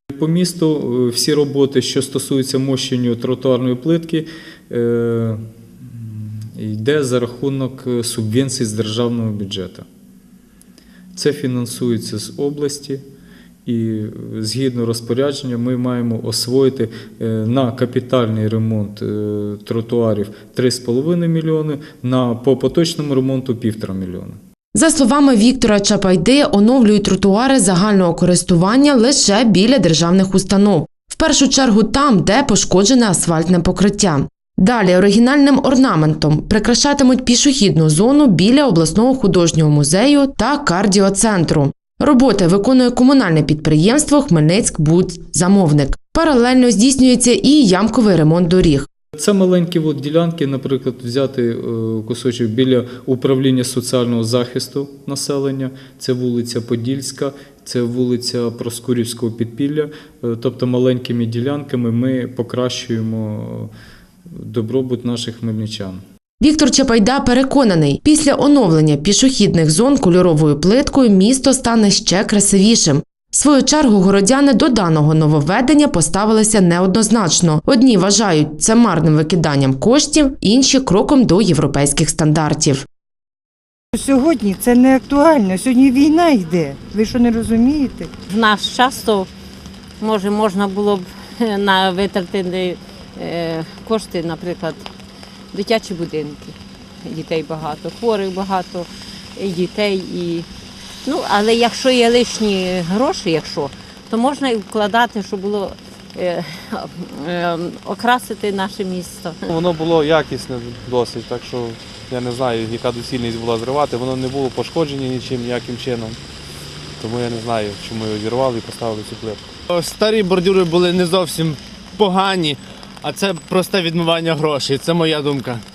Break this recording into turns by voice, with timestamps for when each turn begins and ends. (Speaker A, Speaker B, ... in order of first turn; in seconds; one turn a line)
Speaker A: 0.1-9.9
Speaker A: 11.2-13.0
Speaker A: 13.7-24.4
Speaker B: 24.7-48.9
Speaker A: 49.1-63.7
Speaker A: 64.3-66.0
Speaker B: 66.4-82.9
Speaker C: 83.9-88.1
Speaker D: 88.3-89.3
Speaker D: 90.0-94.8
Speaker D: 95.5-100.5
Speaker D: 101.1-109.4
Speaker E: 109.5-116.2
Speaker E: 117.0-119.4
Speaker F: 119.7-125.6